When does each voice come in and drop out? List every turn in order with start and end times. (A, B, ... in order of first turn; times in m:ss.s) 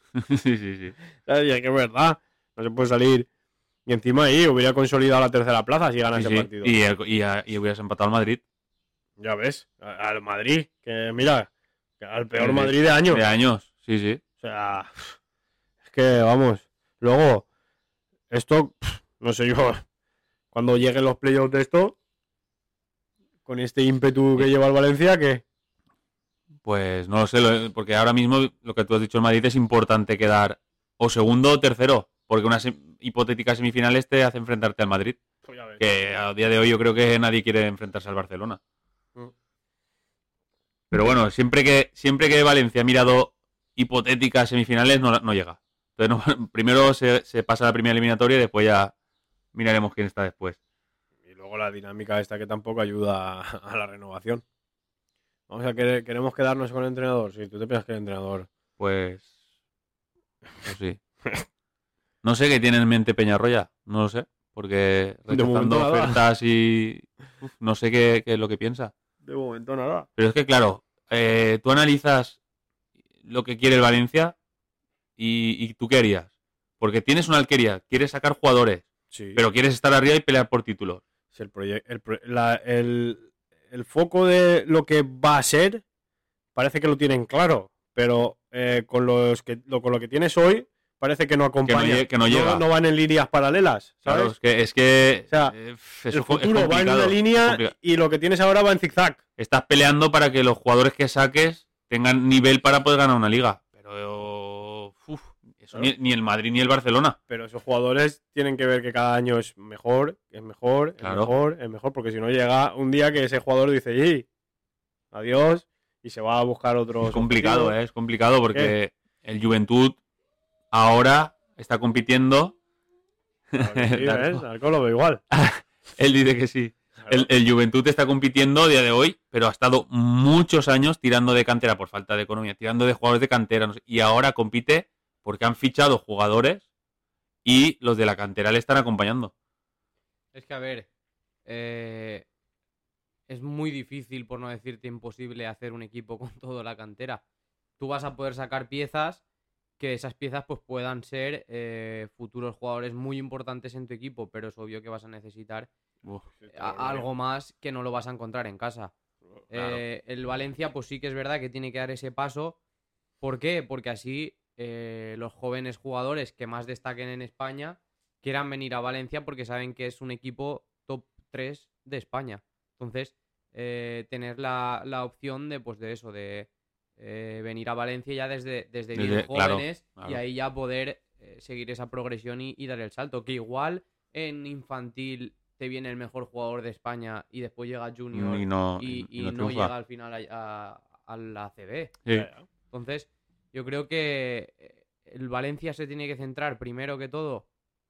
0:00.2-0:01.0 A
0:01.3-0:03.3 B
0:03.9-0:06.8 B
0:06.2-0:08.4 A
0:09.2-0:13.2 B
0:12.4-0:14.2 A
0:14.4-0:15.2 B
0:15.8-0:17.5 B
0:18.3-0:19.8 B
0:20.5-0:22.0 B
0:23.5-0:25.4 B
0:26.6-0:35.2 A
0:35.4-0:35.9 B
0:35.8-0:38.6 A
0:40.9-0:48.9 A
0:49.5-0:50.6 A
0:51.2-0:54.4 B
0:55.5-0:58.5 B
0:58.8-0:59.3 A
1:00.6-1:01.0 A
1:02.2-1:08.9 A
1:05.3-1:06.2 B
1:09.2-1:10.1 B
1:10.2-1:12.4 A
1:13.2-1:14.4 A
1:15.2-1:21.0 A
1:19.1-1:19.4 B
1:21.3-1:25.8 B
1:26.6-1:34.4 B
1:31.7-1:32.6 A
1:34.0-1:37.7 A
1:35.3-1:35.6 B
1:36.1-1:39.2 B
1:39.4-1:47.2 A
1:47.3-1:54.3 B
1:51.0-1:51.3 A
1:55.1-1:57.8 B
1:57.0-2:00.0 A
2:00.7-2:02.6 A
2:03.5-2:04.4 A
2:03.6-2:05.2 B
2:05.3-2:16.7 A
2:07.0-2:07.3 B
2:17.4-2:19.3 A
2:20.3-2:20.9 C
2:21.5-2:22.3 C
2:23.3-2:27.2 C
2:27.8-2:29.2 C
2:29.8-2:35.7 C
2:36.3-2:37.1 B
2:36.5-2:38.9 C
2:39.5-2:42.6 C
2:39.5-2:39.8 A
2:43.2-3:12.0 C
2:59.0-3:00.2 A
3:08.1-3:09.7 A
3:12.1-3:12.4 B
3:12.7-3:17.5 C